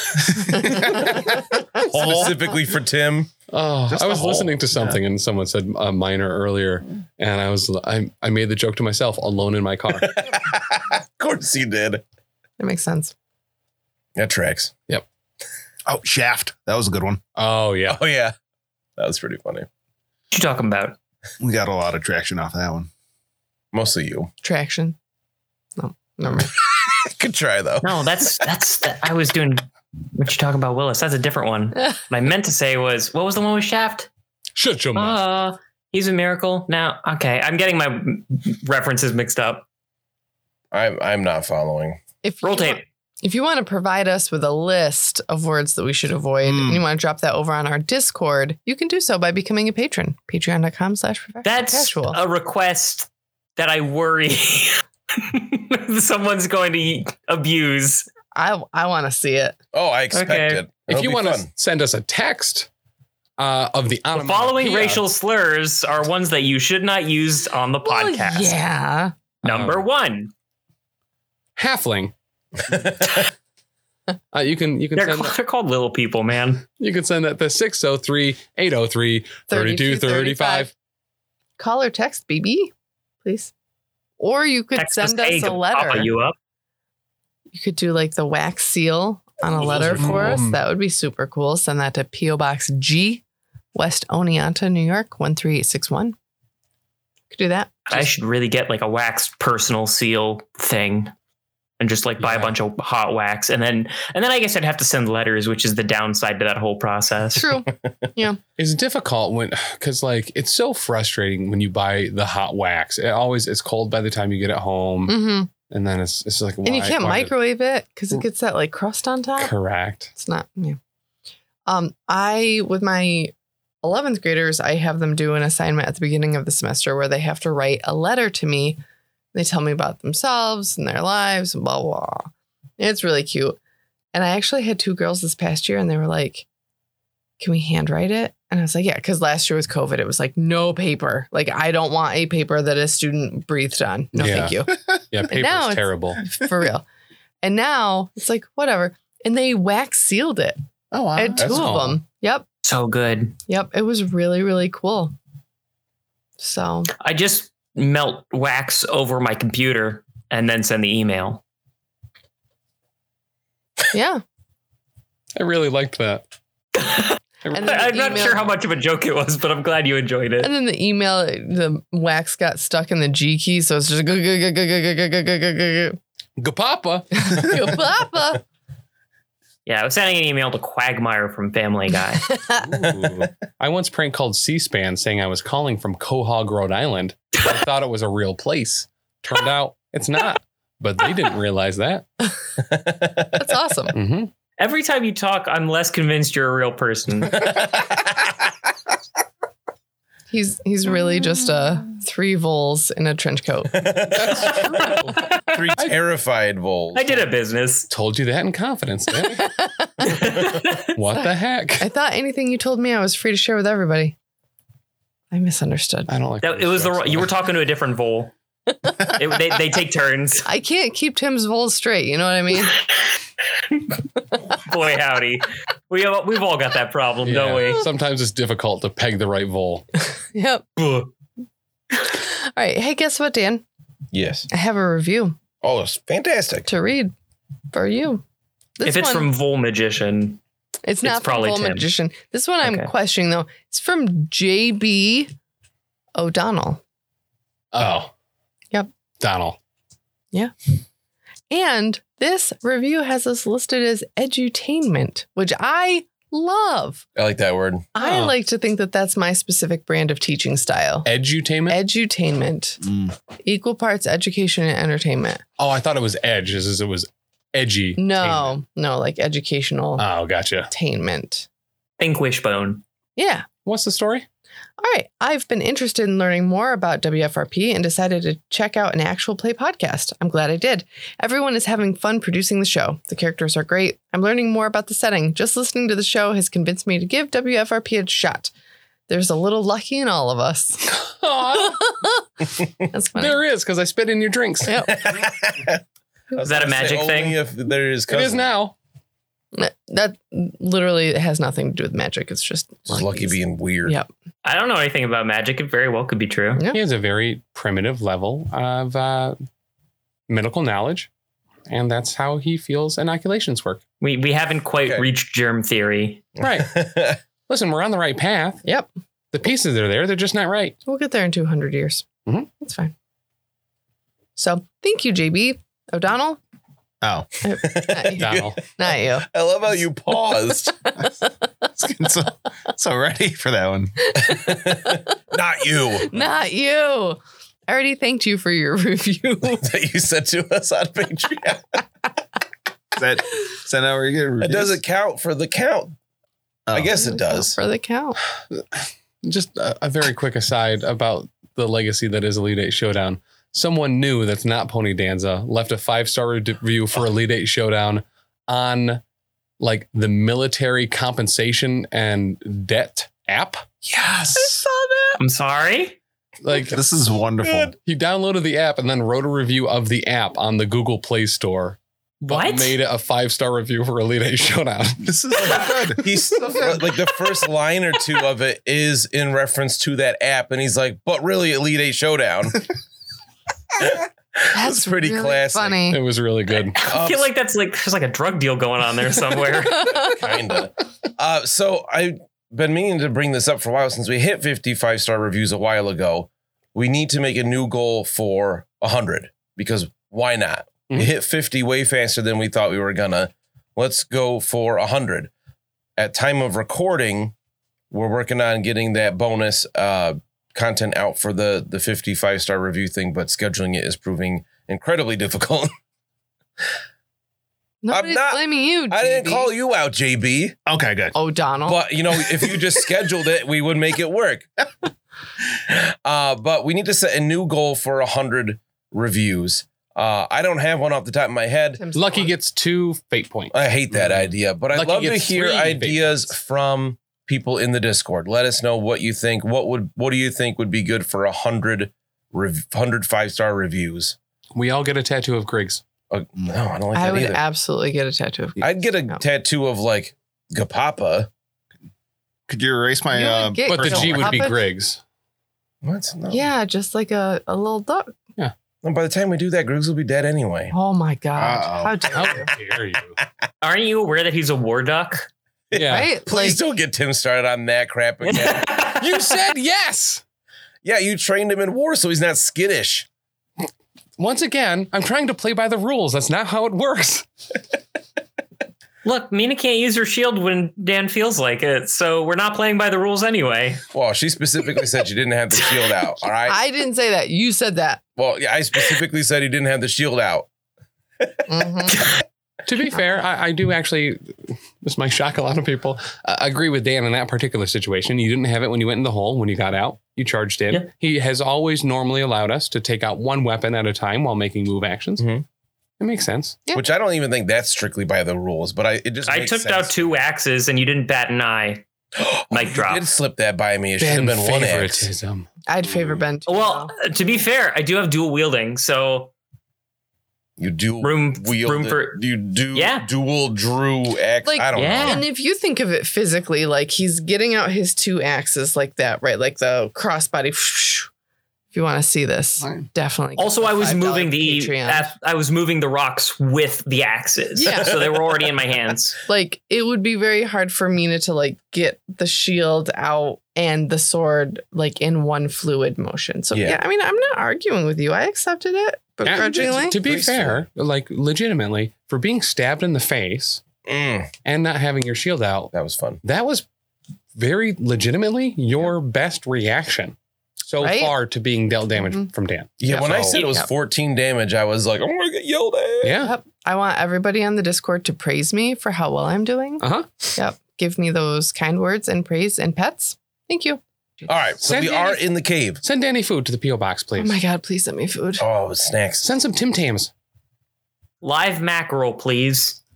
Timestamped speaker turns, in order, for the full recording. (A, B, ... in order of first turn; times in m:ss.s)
0:00.2-0:02.4 A
0:00.6-0:00.9 B
0:01.8-0:03.3 C
0:03.5-0:10.1 D
0:03.9-0:05.0 A
0:09.9-0:12.0 C
0:12.6-0:13.1 B
0:14.2-0:14.7 C
0:15.9-0:17.2 A
0:17.4-0:18.0 D
0:17.9-0:18.4 C
0:19.0-0:19.7 C
0:20.3-0:21.0 E
0:21.4-0:22.9 A
0:23.7-0:24.3 C
0:24.4-0:25.0 B
0:25.8-0:26.5 B
0:26.9-0:28.0 C
0:27.8-0:34.1 E
0:34.6-0:35.2 D
0:35.0-0:39.6 E
0:40.7-0:42.0 C
0:42.2-0:52.2 B
0:42.4-0:42.8 E
0:46.4-0:46.8 A
0:51.4-0:58.1 E
0:58.3-0:59.6 B
0:59.7-1:01.5 C
1:00.1-1:00.6 E
1:00.9-1:02.7 D
1:03.4-1:05.1 D
1:04.1-1:08.6 E
1:07.8-1:09.1 B
1:09.4-1:10.3 E
1:09.4-1:09.8 D
1:11.6-1:12.1 D
1:12.7-1:13.1 C
1:14.3-1:15.4 D
1:15.0-1:16.6 E
1:16.7-1:20.7 D
1:19.5-1:20.7 B
1:21.6-1:22.7 B
1:23.2-1:23.5 B
1:24.2-1:26.1 B
1:24.8-1:26.4 E
1:27.5-1:33.2 B
1:29.6-1:30.6 D
1:33.7-1:36.2 B
1:37.3-1:37.8 B
1:37.9-1:41.1 E
1:41.8-1:47.5 E
1:42.2-1:42.6 D
1:47.3-1:48.4 B
1:48.6-1:57.3 D
1:55.1-1:55.5 B
1:56.6-1:59.6 B
1:59.4-2:00.1 D
2:00.1-2:00.8 B
2:01.7-2:03.3 B
2:03.8-2:08.8 B
2:09.3-2:13.6 B
2:14.1-2:16.5 B
2:17.4-2:24.7 B
2:24.2-2:24.6 D
2:24.7-2:25.0 A
2:25.1-2:26.2 D
2:25.3-2:26.9 B
2:27.4-2:30.6 B
2:30.9-2:31.8 A
2:31.2-2:32.5 B
2:31.4-2:32.0 D
2:32.6-2:33.4 E
2:33.5-2:35.1 B
2:36.4-2:36.9 B
2:37.0-2:41.4 E
2:43.9-2:44.2 B
2:45.4-2:46.2 D
2:46.7-2:50.5 E
2:47.4-2:48.3 D
2:47.5-2:48.6 B
2:50.4-2:56.0 B
2:56.4-2:57.9 D
2:57.1-2:58.4 B
2:59.7-3:02.4 E
3:02.3-3:02.7 B
3:02.5-3:12.1 D
3:12.7-3:13.4 C
3:13.3-3:14.0 B
3:13.9-3:14.3 D
3:14.6-3:17.6 E
3:17.3-3:18.3 C
3:20.3-3:23.9 B
3:23.7-3:24.8 C
3:24.1-3:26.0 D
3:24.5-3:25.4 E
3:25.5-3:27.3 C
3:26.9-3:27.9 E
3:27.9-3:29.6 D
3:29.2-3:30.3 B
3:30.0-3:30.9 E
3:30.9-3:31.9 D
3:31.2-3:34.2 B
3:35.3-3:36.1 B
3:36.1-3:37.3 D
3:36.4-3:38.3 E
3:38.9-3:39.1 B
3:39.0-3:40.5 E
3:40.4-3:42.8 B
3:44.5-3:47.8 E
3:47.2-3:49.8 D
3:50.3-3:50.7 B
3:50.8-3:51.1 E
3:52.0-3:53.6 B
3:54.1-3:54.5 C
3:54.5-3:55.4 B
3:55.6-3:56.7 C
3:56.7-3:57.1 B
3:57.7-3:58.2 B
3:58.8-3:59.3 B
3:58.8-4:00.4 E
4:00.8-4:05.3 B
4:01.0-4:01.9 E
4:02.6-4:02.9 E
4:06.2-4:06.8 B
4:07.7-4:08.1 D
4:09.2-4:09.6 D
4:11.5-4:17.0 B
4:17.2-4:17.9 C
4:18.0-4:21.1 B
4:18.0-4:18.4 D
4:21.0-4:21.8 D
4:21.7-4:22.8 B
4:22.8-4:23.2 A
4:23.4-4:25.4 B
4:25.6-4:28.6 D
4:28.0-4:30.1 B
4:30.0-4:30.7 D
4:30.7-4:31.5 B
4:32.0-4:32.8 E
4:33.2-4:33.5 B
4:33.6-4:34.3 D
4:34.8-4:48.5 B
4:49.1-4:50.9 B
4:50.8-4:51.9 D
4:51.5-4:52.2 B
4:52.9-4:53.4 B
4:53.2-4:54.9 D
4:54.6-4:55.0 B
4:54.9-4:55.8 C
4:56.3-4:58.5 C
4:56.4-4:57.4 E
4:58.1-4:58.7 D
4:59.5-5:04.1 B
5:02.9-5:04.0 C
5:04.4-5:06.6 E
5:06.6-5:06.8 B
5:06.7-5:09.4 D
5:10.3-5:11.1 D
5:11.7-5:13.8 D
5:14.0-5:16.3 E
5:16.4-5:17.2 C
5:16.4-5:16.8 D
5:17.5-5:18.6 D
5:19.3-5:20.8 D
5:20.9-5:22.9 B
5:24.4-5:26.4 B
5:27.0-5:27.3 A
5:27.4-5:29.3 B
5:27.6-5:30.8 C
5:28.2-5:28.6 D
5:31.7-5:34.0 A
5:34.1-5:35.2 B
5:34.2-5:36.1 C
5:35.9-5:39.7 B
5:39.6-5:41.8 C
5:43.0-5:44.8 A
5:44.4-5:46.0 C
5:46.7-5:47.6 C
5:47.0-5:48.2 B
5:48.5-5:59.0 D
5:59.6-6:03.7 D
6:03.8-6:04.7 A
6:04.4-6:05.2 B
6:05.2-6:06.0 E
6:06.4-6:06.8 D
6:06.6-6:07.8 A
6:07.4-6:07.7 C
6:07.8-6:15.1 D
6:12.2-6:12.8 E
6:15.0-6:16.8 A
6:15.4-6:22.6 C
6:23.8-6:25.8 C
6:24.5-6:26.0 B
6:25.9-6:26.8 D
6:26.7-6:30.1 E
6:26.8-6:27.3 C
6:29.8-6:45.3 C
6:46.0-6:47.3 C
6:47.9-6:55.7 C
6:57.8-6:59.5 B
6:57.9-7:00.6 C
7:00.7-7:01.2 A
7:01.1-7:01.8 B
7:01.7-7:04.5 C
7:05.7-7:11.8 C
7:11.8-7:12.3 B
7:11.9-7:16.3 D
7:13.5-7:24.2 C
7:24.6-7:25.8 D
7:26.1-7:27.4 C
7:26.9-7:29.2 B
7:28.6-7:31.3 C
7:32.5-7:34.5 A
7:33.1-7:34.6 B
7:33.7-7:35.0 D
7:35.8-7:36.5 C
7:36.3-7:38.2 B
7:38.8-7:40.7 C
7:40.7-7:42.5 B
7:41.4-7:42.1 A
7:42.1-7:43.2 D
7:43.6-7:45.3 E
7:45.7-7:48.8 C
7:45.7-7:46.1 D
7:45.8-7:46.6 B
7:48.2-7:49.0 E
7:48.8-7:50.2 D
7:50.8-7:53.1 C
7:54.2-7:57.3 D
7:59.0-8:03.8 E
8:03.9-8:06.6 C
8:06.5-8:08.0 B
8:08.2-8:10.5 C
8:11.5-8:12.0 B
8:12.7-8:25.3 D
8:25.2-8:25.4 C
8:26.0-8:26.6 D
8:26.7-8:30.0 C
8:29.2-8:31.8 E
8:32.2-8:35.1 C
8:32.5-8:33.1 E
8:34.0-8:35.5 D
8:35.7-8:37.1 B
8:36.5-8:39.3 E
8:40.6-8:45.2 C
8:41.0-8:43.1 E
8:44.4-8:51.1 B
8:44.8-8:45.3 E
8:51.7-8:55.1 B
8:52.6-8:52.9 A
8:53.4-8:59.2 E
8:57.6-8:58.0 B
8:59.3-9:10.0 B
9:06.5-9:06.8 C
9:09.2-9:13.6 D
9:09.3-9:10.6 C
9:13.8-9:14.3 C
9:14.4-9:16.7 D
9:15.7-9:16.2 C
9:17.3-9:23.4 D
9:20.8-9:21.2 B
9:22.0-9:22.3 B
9:22.8-9:26.2 C
9:22.9-9:23.7 B
9:26.0-9:26.4 D
9:26.2-9:34.3 B
9:29.8-9:30.1 D
9:34.3-9:35.8 C
9:34.6-9:35.2 D
9:35.8-9:37.4 D
9:37.2-9:38.5 B
9:38.4-9:39.3 C
9:39.2-9:40.1 D
9:41.2-9:42.8 E